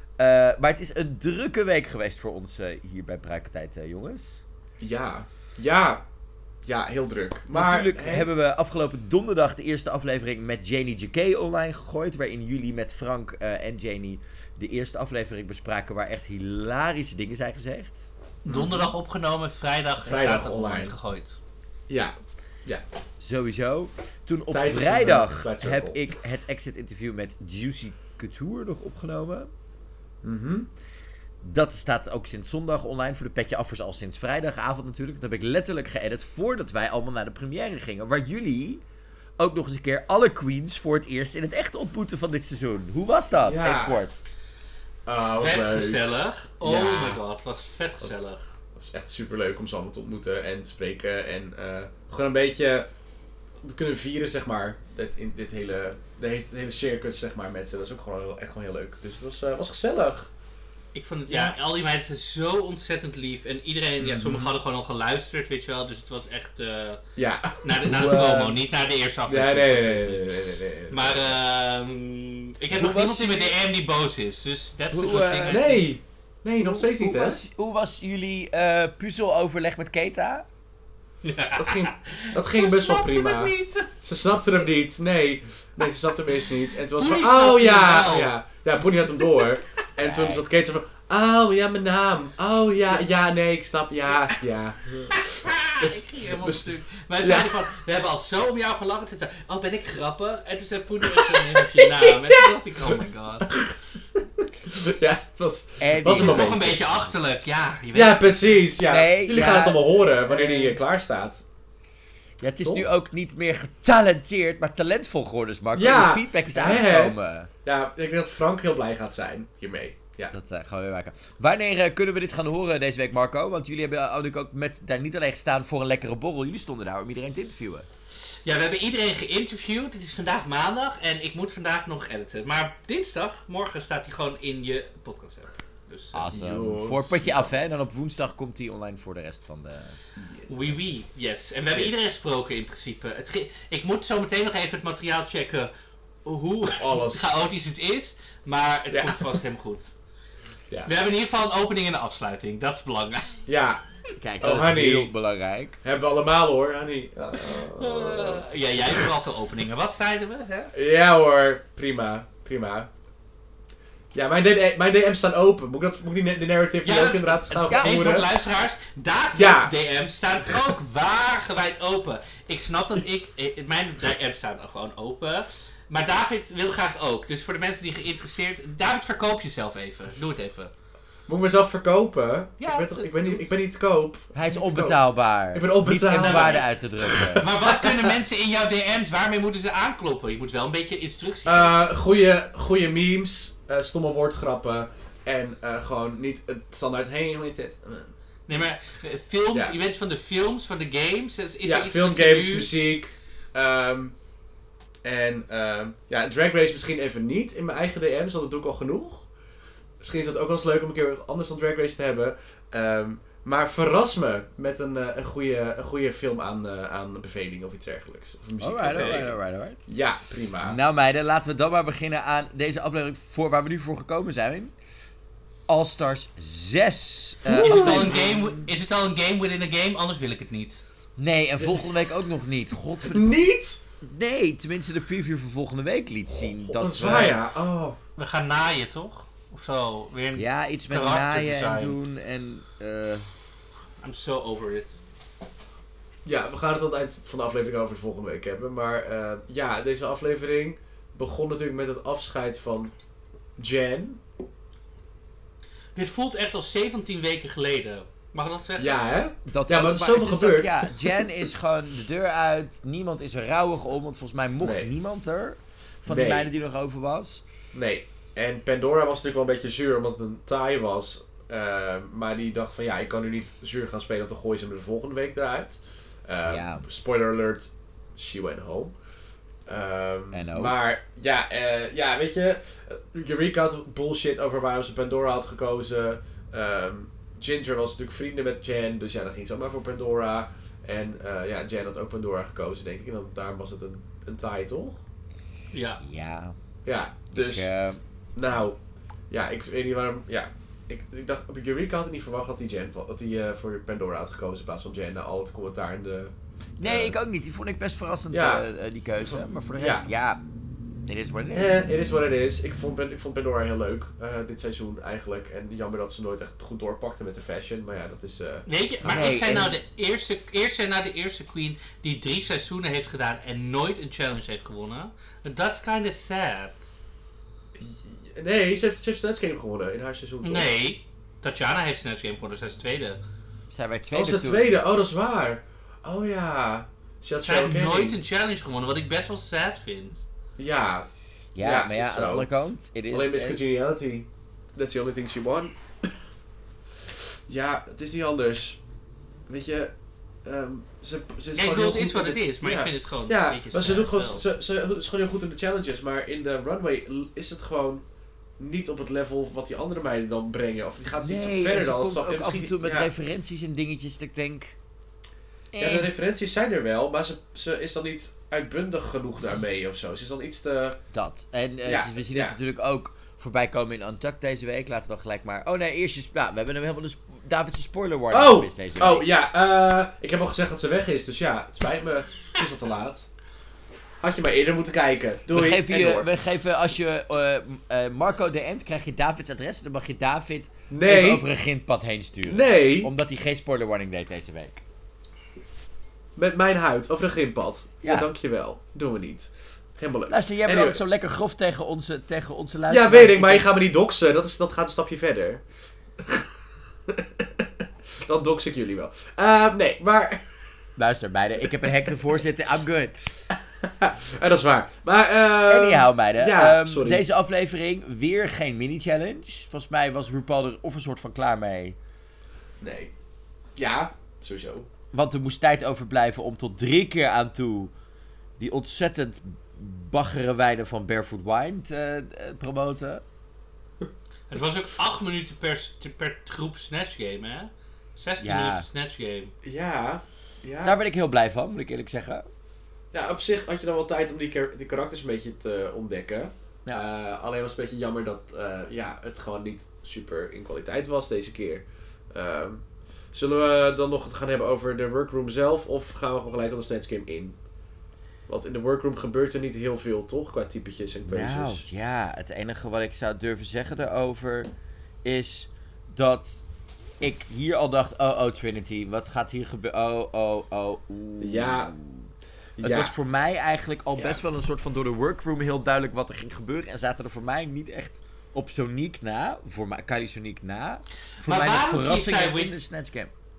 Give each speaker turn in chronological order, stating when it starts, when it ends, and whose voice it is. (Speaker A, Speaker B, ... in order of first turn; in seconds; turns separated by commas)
Speaker A: 0.2-4.4, Speaker B: 4.8-6.0, Speaker B: 6.6-8.3, Speaker A: 7.5-18.1, Speaker C: 18.4-21.4, Speaker B: 18.5-18.9, Speaker B: 20.0-20.9, Speaker B: 21.9-22.8, Speaker A: 23.2-29.5, Speaker B: 24.5-26.0, Speaker B: 30.2-30.7, Speaker A: 31.4-38.8, Speaker A: 39.4-44.2, Speaker B: 43.4-44.0, Speaker B: 45.0-46.0, Speaker C: 45.4-48.4, Speaker B: 46.6-47.2, Speaker B: 48.7-52.9, Speaker B: 53.6-60.3, Speaker C: 60.9-67.0, Speaker B: 61.3-61.6, Speaker B: 64.0-64.5, Speaker B: 67.2-68.5, Speaker C: 67.5-75.8, Speaker A: 67.9-68.5, Speaker B: 69.3-71.3, Speaker A: 72.7-73.5, Speaker A: 74.9-75.6, Speaker B: 75.4-77.4, Speaker A: 76.6-80.5, Speaker C: 81.2-83.9, Speaker B: 81.5-95.2, Speaker C: 87.0-88.3, Speaker A: 90.0-90.4, Speaker C: 95.1-103.5, Speaker B: 95.8-97.7, Speaker B: 101.0-106.8, Speaker A: 105.8-106.8, Speaker C: 106.1-108.5, Speaker B: 107.9-111.4, Speaker A: 108.8-110.7, Speaker A: 112.4-117.5, Speaker B: 115.7-120.3, Speaker A: 120.3-127.9, Speaker C: 128.4-136.2, Speaker A: 136.1-140.0, Speaker B: 136.3-137.5, Speaker B: 140.2-140.8, Speaker C: 140.5-145.7, Speaker B: 141.7-142.0, Speaker C: 146.2-149.9, Speaker B: 146.8-147.3, Speaker B: 148.9-149.4, Speaker C: 150.8-153.3, Speaker B: 153.5-153.8, Speaker A: 154.2-155.8, Speaker B: 154.4-155.1, Speaker B: 155.8-159.1, Speaker C: 157.5-160.7, Speaker B: 160.7-162.9, Speaker B: 164.1-168.3, Speaker C: 166.8-180.7, Speaker A: 167.6-168.0, Speaker B: 169.3-169.7, Speaker B: 181.3-185.0, Speaker C: 182.6-183.5, Speaker A: 184.3-187.4, Speaker B: 185.5-188.2, Speaker C: 186.1-186.7, Speaker C: 187.3-191.8, Speaker B: 191.4-198.1, Speaker C: 198.5-202.7, Speaker B: 201.6-204.2, Speaker B: 205.0-209.3, Speaker B: 210.0-219.3, Speaker A: 218.6-219.9, Speaker C: 218.9-219.2, Speaker B: 219.9-220.8, Speaker A: 220.6-224.7, Speaker A: 225.7-228.7, Speaker B: 227.4-228.2, Speaker C: 227.6-230.8, Speaker A: 231.2-233.4, Speaker B: 233.1-233.8, Speaker A: 234.0-237.4, Speaker B: 236.7-238.0, Speaker C: 237.0-237.4, Speaker C: 238.2-241.9, Speaker A: 240.3-243.3, Speaker C: 244.0-245.0, Speaker B: 246.2-252.9, Speaker B: 253.6-254.2, Speaker C: 255.9-258.9, Speaker B: 258.8-261.2, Speaker A: 259.5-267.4, Speaker B: 264.6-264.9, Speaker B: 266.1-266.5, Speaker B: 267.7-278.9, Speaker A: 276.4-276.9, Speaker B: 279.7-295.0, Speaker A: 280.3-280.8, Speaker C: 295.7-296.0, Speaker A: 296.0-296.6, Speaker B: 296.8-297.7, Speaker A: 297.3-298.0, Speaker B: 298.3-298.8, Speaker B: 299.3-307.1, Speaker A: 306.8-310.4, Speaker B: 308.3-308.6, Speaker B: 309.3-310.1, Speaker A: 311.1-311.9, Speaker B: 311.5-318.6, Speaker C: 318.7-326.8, Speaker A: 319.0-319.8, Speaker B: 327.8-330.7, Speaker C: 330.4-333.2, Speaker A: 333.7-334.8, Speaker B: 334.1-338.2, Speaker C: 337.4-340.3, Speaker B: 340.6-341.1, Speaker A: 341.5-343.6, Speaker B: 341.6-342.5, Speaker B: 343.1-345.8, Speaker B: 347.1-348.8, Speaker B: 349.5-349.9, Speaker B: 350.4-358.0, Speaker C: 351.6-354.4, Speaker B: 358.6-363.1, Speaker A: 361.2-364.7, Speaker A: 365.7-366.1, Speaker B: 365.8-371.0, Speaker A: 371.1-379.3, Speaker B: 371.8-372.6, Speaker B: 378.3-383.3, Speaker B: 384.2-386.3, Speaker A: 385.5-394.8, Speaker B: 390.9-391.4, Speaker B: 392.5-393.1, Speaker B: 396.4-401.0, Speaker A: 398.0-398.3, Speaker A: 400.3-403.7, Speaker B: 402.9-405.6, Speaker B: 406.2-406.5, Speaker B: 407.1-410.6, Speaker A: 411.0-413.4, Speaker B: 413.5-417.2, Speaker A: 415.7-422.0, Speaker B: 422.8-423.1, Speaker B: 423.8-424.9, Speaker A: 425.1-427.9, Speaker A: 428.6-433.2, Speaker C: 434.5-439.5, Speaker A: 438.4-438.9, Speaker B: 439.6-440.9, Speaker A: 440.8-442.5, Speaker B: 443.1-457.6, Speaker B: 458.5-461.9, Speaker A: 461.3-464.7, Speaker A: 465.2-466.6, Speaker A: 467.2-483.3, Speaker B: 471.4-471.9, Speaker B: 472.8-473.1, Speaker B: 474.2-474.4, Speaker C: 481.4-482.7